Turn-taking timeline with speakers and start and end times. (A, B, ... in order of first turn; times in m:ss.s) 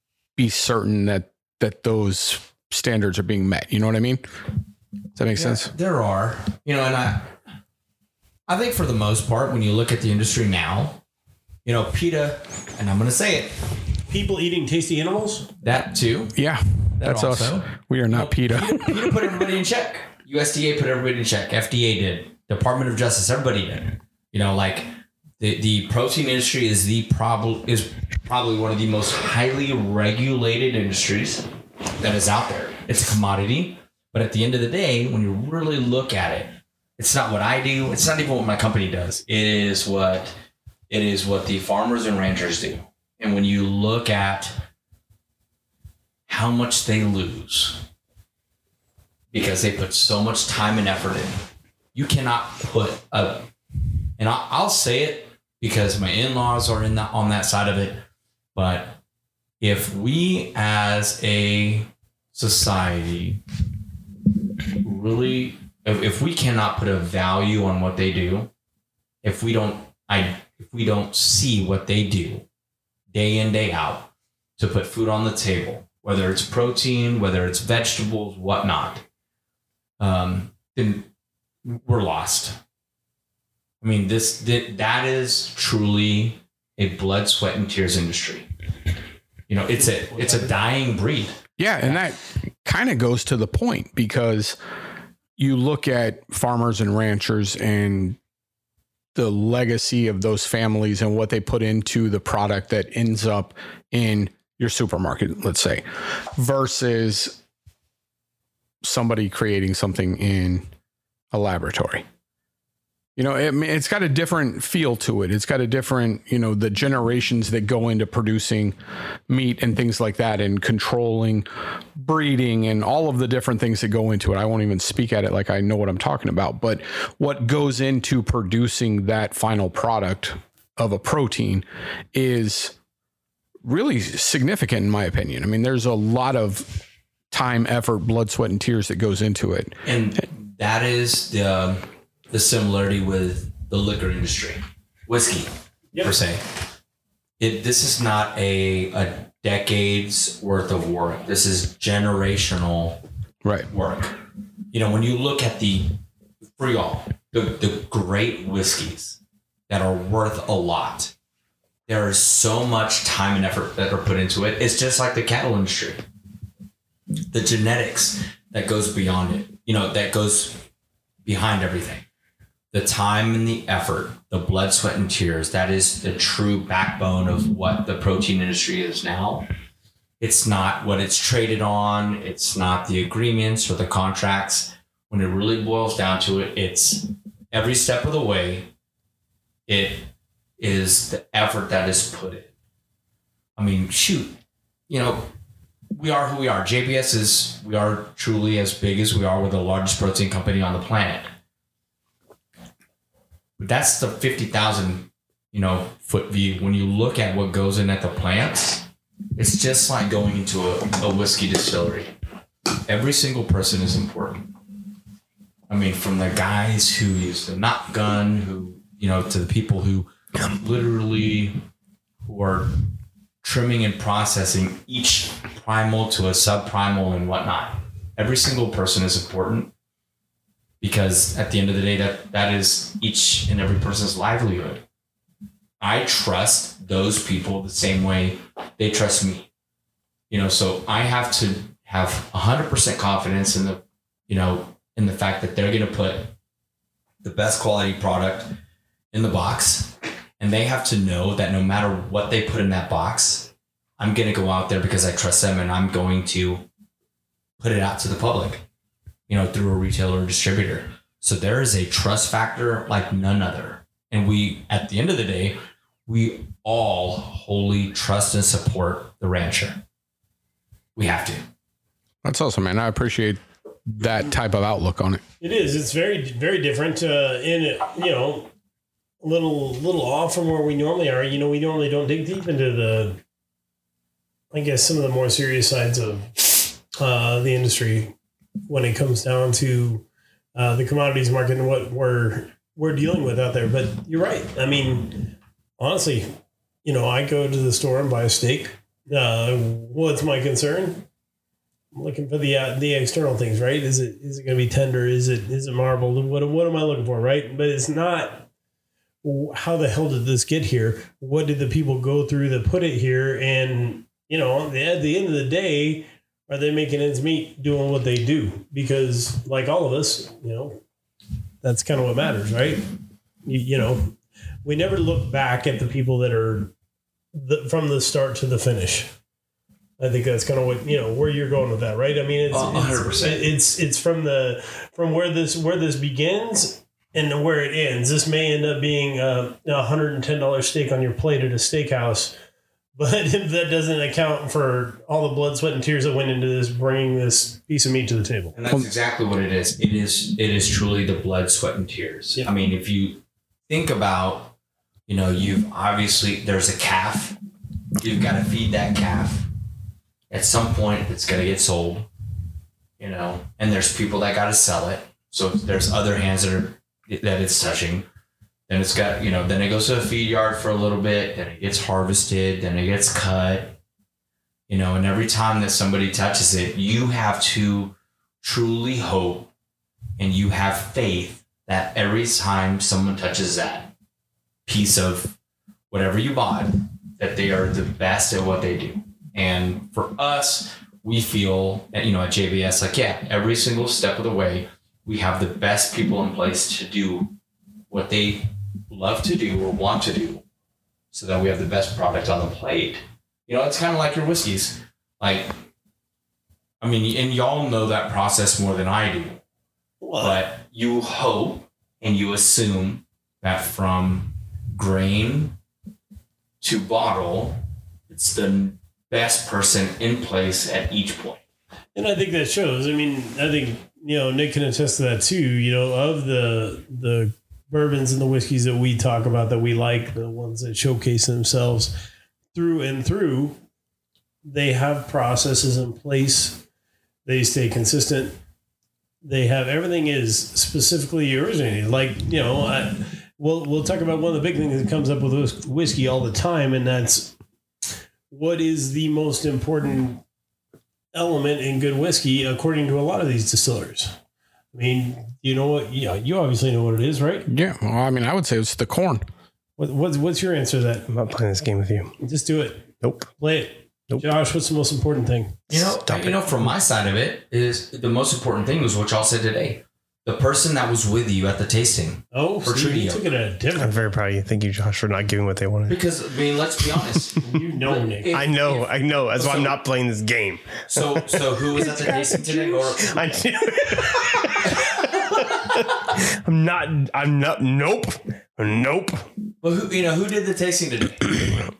0:00.4-0:04.2 A
0:05.2-0:05.7 A
0:05.3-0:07.3 B
0:08.5-0:11.0 B
0:11.6-0:13.5 B
0:14.1-0:15.5 C
0:15.6-0:16.3 B
0:16.3-0:19.3 A
0:17.0-0:31.4 B
0:32.0-0:40.3 B
0:40.9-0:44.5 B
0:46.3-0:47.8 B
0:49.3-0:51.3 B
0:51.9-0:53.5 B
0:54.2-0:58.0 B
0:58.5-0:59.0 B
0:59.6-1:03.4 B
1:04.8-1:08.5 B
1:09.2-1:12.4 B
1:13.1-1:19.0 B
1:20.0-1:21.1 B
1:21.6-1:22.6 B
1:23.8-1:28.5 B
1:29.5-1:31.3 B
1:29.8-1:30.6 C
1:31.6-1:34.6 A
1:35.4-1:38.2 A
1:39.1-1:45.8 A
1:46.3-1:47.4 A
1:48.8-1:50.6 A
1:51.3-1:52.0 A
1:53.2-1:58.7 A
1:59.3-2:01.4 A
2:02.0-2:12.7 A
2:13.6-2:16.8 A
2:17.3-2:19.8 A
2:19.8-2:26.4 B
2:27.4-2:33.0 B
2:33.7-2:34.2 B
2:34.7-2:35.9 B
2:36.6-2:39.2 B
2:39.7-2:41.1 B
2:41.9-2:46.0 B
2:47.3-2:50.6 B
2:51.2-2:52.0 B
2:52.7-2:59.5 B
3:00.2-3:08.7 B
3:09.7-3:10.1 B
3:10.6-3:12.5 B
3:13.6-3:14.4 B
3:14.9-3:15.3 B
3:15.9-3:21.3 B
3:23.6-3:28.8 B
3:29.4-3:32.1 B
3:32.9-3:34.5 B
3:35.7-3:41.6 B
3:42.2-3:42.7 B
3:43.4-3:49.7 B
3:50.8-3:54.8 B
3:55.8-3:59.5 B
4:00.3-4:06.3 B
4:07.2-4:08.5 B
4:09.1-4:16.6 B
4:17.6-4:18.6 B
4:19.3-4:29.8 B
4:31.0-4:31.4 B
4:32.2-4:35.2 A
4:35.4-4:38.5 C
4:39.2-4:43.2 C
4:44.5-4:48.1 C
4:48.7-4:56.3 C
4:56.8-5:01.0 C
5:01.9-5:08.4 C
5:09.2-5:20.8 C
5:21.6-5:22.8 C
5:23.4-5:26.7 C
5:27.3-5:29.1 C
5:30.0-5:42.3 C
5:32.5-5:33.4 B
5:43.0-5:48.5 C
5:48.5-5:54.5 B
5:55.1-5:57.4 B
5:58.0-5:59.5 B
6:00.3-6:02.1 B
6:03.0-6:08.0 B
6:08.7-6:13.8 B
6:14.7-6:19.5 B
6:20.2-6:23.9 B
6:24.6-6:25.3 B
6:25.9-6:37.3 B
6:37.9-6:40.4 B
6:41.1-6:45.5 B
6:46.8-6:49.4 B
6:50.0-6:50.4 C
6:50.2-6:55.6 B
6:56.6-7:01.4 B
7:01.9-7:12.0 C
7:12.5-7:13.6 C
7:14.4-7:16.6 C
7:17.2-7:18.4 C
7:19.2-7:27.3 C
7:28.3-7:30.2 C
7:31.1-7:34.1 C
7:34.7-7:37.5 C
7:37.5-7:39.2 A
7:39.8-7:41.1 C
7:41.1-7:42.1 D
7:42.2-7:45.6 C
7:43.0-7:43.3 D
7:45.7-7:53.2 B
7:45.7-7:46.7 D
7:52.3-7:54.1 C
7:53.8-7:56.0 D
7:55.9-7:59.8 B
7:57.4-7:58.4 C
7:58.3-8:09.3 D
8:00.9-8:03.3 B
8:04.6-8:05.4 B
8:09.6-8:11.6 B